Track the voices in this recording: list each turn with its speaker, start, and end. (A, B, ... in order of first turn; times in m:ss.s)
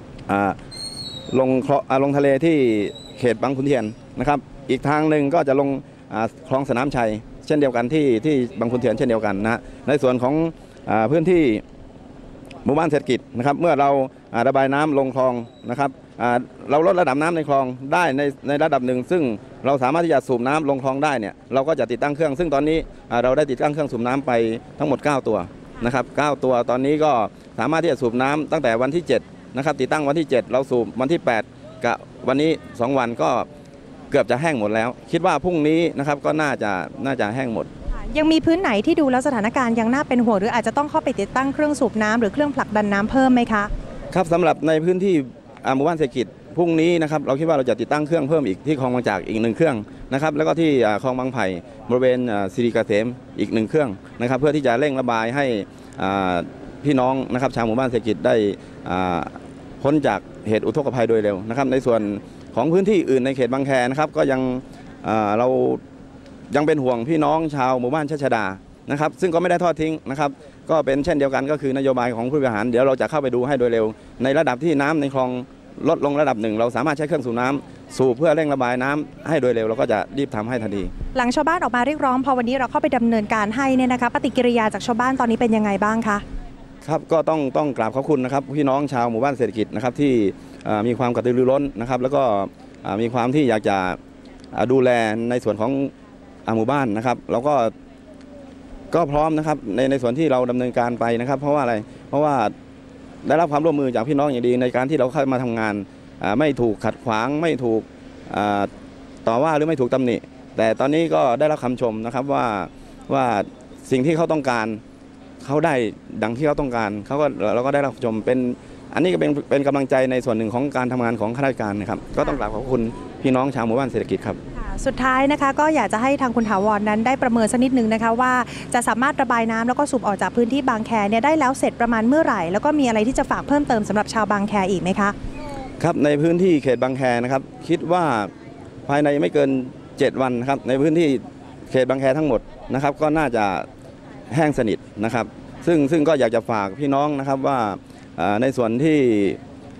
0:00.3-0:00.6 A
0:01.3-0:11.6 A
0:12.6-0:33.5 A
0:34.1-0:37.7 A
0:37.9-0:43.7 B
0:44.1-1:05.8 A
1:06.5-1:20.9 A
1:21.1-1:26.2 B
1:26.8-1:34.0 A
1:34.5-1:35.9 A
1:36.4-1:37.7 A
1:38.9-1:42.5 A
1:43.2-1:48.7 A
1:49.2-1:54.8 A
1:55.4-2:04.4 A
2:04.5-2:15.1 B
2:15.8-2:18.3 A
2:18.8-2:23.7 A
2:24.3-2:29.4 A